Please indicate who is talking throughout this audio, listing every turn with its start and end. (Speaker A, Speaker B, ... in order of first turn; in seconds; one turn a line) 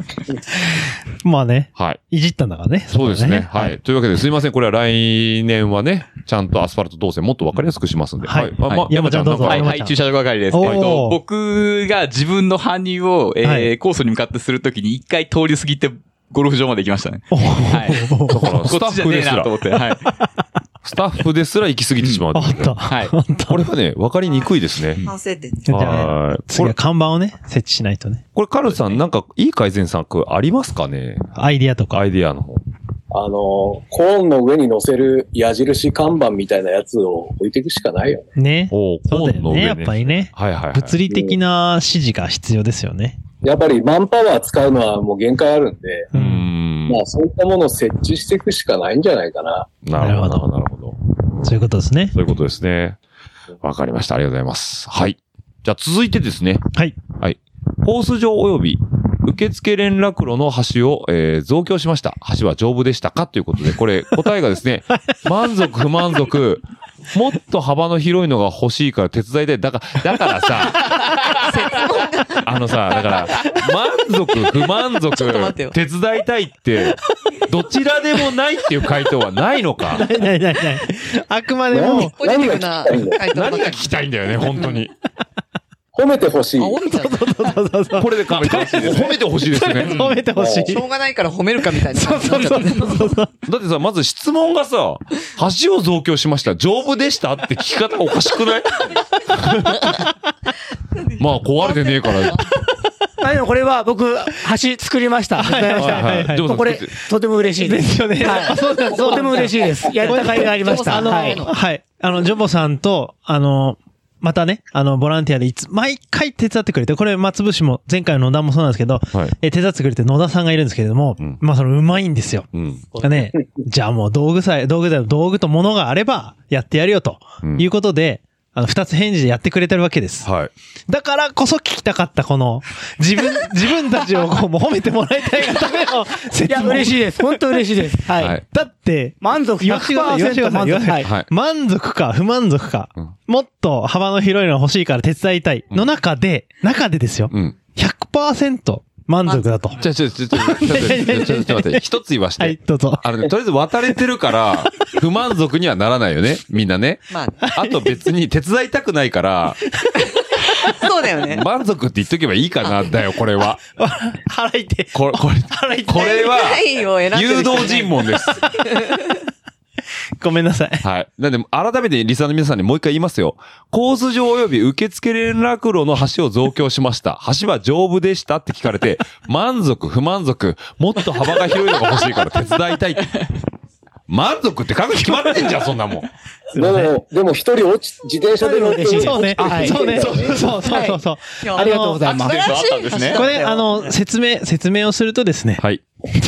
Speaker A: 1.2-3.8
Speaker B: 2.9-9.8
Speaker A: 8.2-10.0
Speaker C: 8.7-20.1
Speaker A: 10.5-11.2
Speaker B: 10.6-10.9
Speaker A: 13.4-13.7
Speaker A: 17.3-18.6
Speaker B: 18.3-19.5
Speaker B: 20.8-22.7
Speaker A: 22.3-23.7
Speaker C: 22.9-23.1
Speaker B: 23.5-25.0
Speaker D: 25.0-26.1
Speaker A: 25.7-28.2
Speaker B: 25.7-26.8
Speaker B: 28.4-31.3
Speaker A: 31.4-32.0
Speaker B: 31.9-32.6
Speaker E: 33.1-38.3
Speaker A: 38.4-43.2
Speaker B: 38.7-41.0
Speaker E: 41.1-41.4
Speaker E: 43.4-46.1
Speaker A: 46.1-46.5
Speaker B: 46.1-47.0
Speaker E: 46.9-49.7
Speaker B: 49.8-51.0
Speaker A: 50.0-50.5
Speaker A: 51.4-52.1
Speaker B: 52.1-53.0
Speaker B: 53.6-56.6
Speaker B: 57.2-71.1
Speaker D: 71.0-73.6
Speaker B: 72.4-80.1
Speaker D: 75.1-75.8
Speaker A: 79.9-82.2
Speaker E: 81.7-83.2
Speaker D: 81.8-83.9
Speaker B: 83.3-84.9
Speaker D: 84.5-84.9
Speaker E: 86.0-86.8
Speaker D: 86.6-87.6
Speaker A: 86.8-90.8
Speaker B: 88.0-90.1
Speaker D: 89.9-93.2
Speaker E: 90.4-90.8
Speaker A: 91.9-93.3
Speaker B: 93.5-100.0
Speaker B: 101.2-102.5
Speaker D: 101.6-102.4
Speaker F: 103.2-111.4
Speaker A: 105.4-106.5
Speaker B: 105.8-106.9
Speaker A: 107.6-130.3
Speaker D: 109.9-111.6
Speaker B: 122.5-122.8
Speaker B: 127.4-127.7
Speaker B: 130.2-130.5
Speaker A: 130.9-137.6
Speaker F: 136.5-138.4
Speaker A: 138.5-151.9
Speaker F: 139.2-141.1
Speaker B: 141.0-141.3
Speaker D: 149.2-149.6
Speaker B: 149.8-159.6
Speaker A: 152.4-153.1
Speaker D: 157.1-157.5
Speaker A: 157.4-157.9
Speaker D: 160.6-161.5
Speaker B: 161.2-163.6
Speaker A: 163.8-166.3
Speaker B: 164.9-168.5
Speaker D: 165.9-169.0
Speaker A: 170.2-170.8
Speaker B: 170.8-183.2
Speaker B: 184.1-186.1
Speaker A: 186.6-186.9
Speaker E: 186.6-190.4
Speaker F: 188.4-191.0
Speaker A: 188.9-192.1
Speaker D: 191.4-193.9
Speaker F: 191.5-192.5
Speaker C: 192.2-193.3
Speaker A: 193.1-195.6